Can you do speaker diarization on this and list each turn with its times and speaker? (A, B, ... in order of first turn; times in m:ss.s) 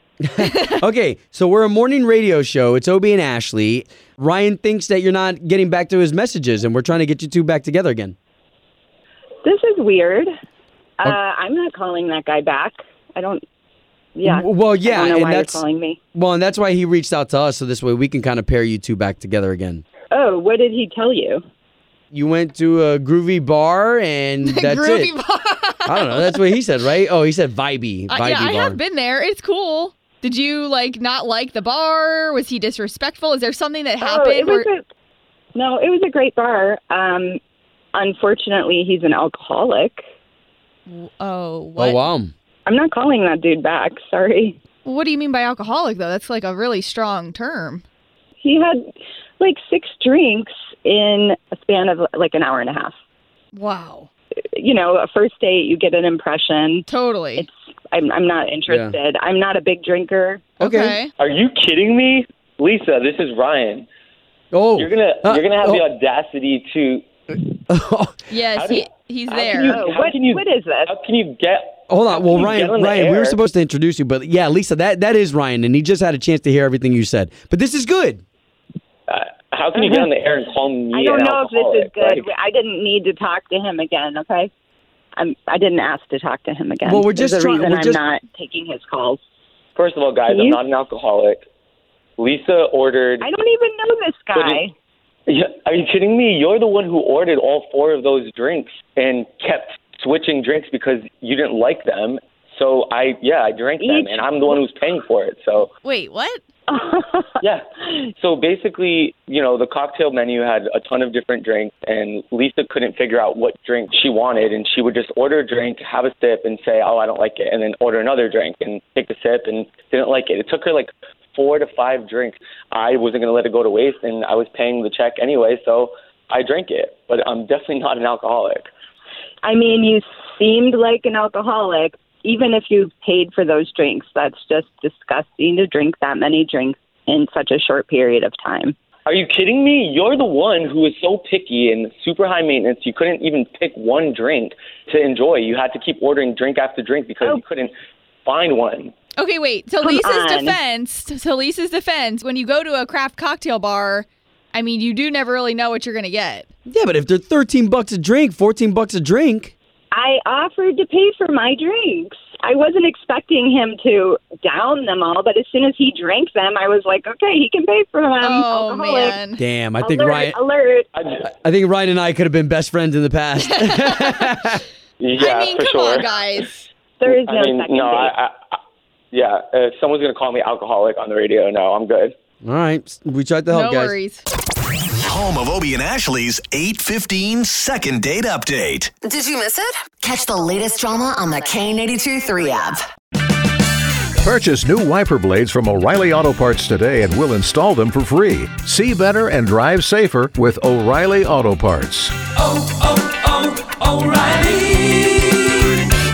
0:00.4-0:08.1 A
0:00.4-0:00.8 B
0:09.4-0:10.3 C
0:11.0-0:13.4 C
0:14.1-0:16.0 C
0:14.2-0:15.6 A
0:16.1-0:19.8 A
0:20.1-0:21.4 C
0:22.1-0:25.1 A
0:24.4-0:26.4 B
0:25.9-0:28.8 A
0:28.1-0:34.7 B
0:34.0-0:34.8 C
0:35.5-0:37.4 C
0:37.9-0:40.0 C
0:40.9-0:42.0 B
0:41.8-0:42.3 A
0:42.6-0:44.6 C
0:44.8-0:47.8 B
0:48.4-0:48.9 C
0:49.4-0:52.9 C
0:53.5-0:54.1 B
0:54.6-0:56.8 C
0:56.9-0:57.4 B
0:57.4-1:00.4 C
0:58.7-0:59.0 A
1:00.6-1:01.1 B
1:00.6-1:01.0 A
1:01.2-1:03.9 D
1:04.5-1:05.8 A
1:04.8-1:07.0 D
1:07.5-1:08.2 A
1:08.3-1:09.8 B
1:08.5-1:13.4 D
1:09.7-1:10.9 C
1:11.9-1:18.2 A
1:19.1-1:22.2 D
1:20.9-1:24.5 C
1:25.2-1:29.2 C
1:26.8-1:28.0 A
1:29.8-1:31.4 D
1:30.3-1:30.6 C
1:32.2-1:33.3 D
1:33.2-1:34.7 C
1:34.3-1:34.6 D
1:35.3-1:45.7 D
1:43.8-1:44.6 C
1:45.6-1:46.4 B
1:46.7-1:47.3 C
1:47.4-2:08.7 D
2:09.4-2:18.7 C
2:19.0-2:27.7 D
2:28.2-2:28.9 D
2:29.2-2:36.4 B
2:29.8-2:30.6 C
2:36.7-2:39.5 A
2:39.9-2:49.2 C
2:48.2-2:49.4 B
2:49.4-2:50.4 A
2:49.8-2:50.9 C
2:51.0-2:51.2 D
2:51.2-2:54.6 A
2:53.6-2:54.3 B
2:55.0-2:56.1 D
2:55.2-2:56.7 B
2:57.0-2:58.1 C
2:57.0-2:58.6 D
2:59.1-3:02.1 D
3:02.4-3:04.0 A
3:03.5-3:04.2 B
3:05.0-3:08.9 E
3:09.0-3:12.8 F
3:14.2-3:22.2 G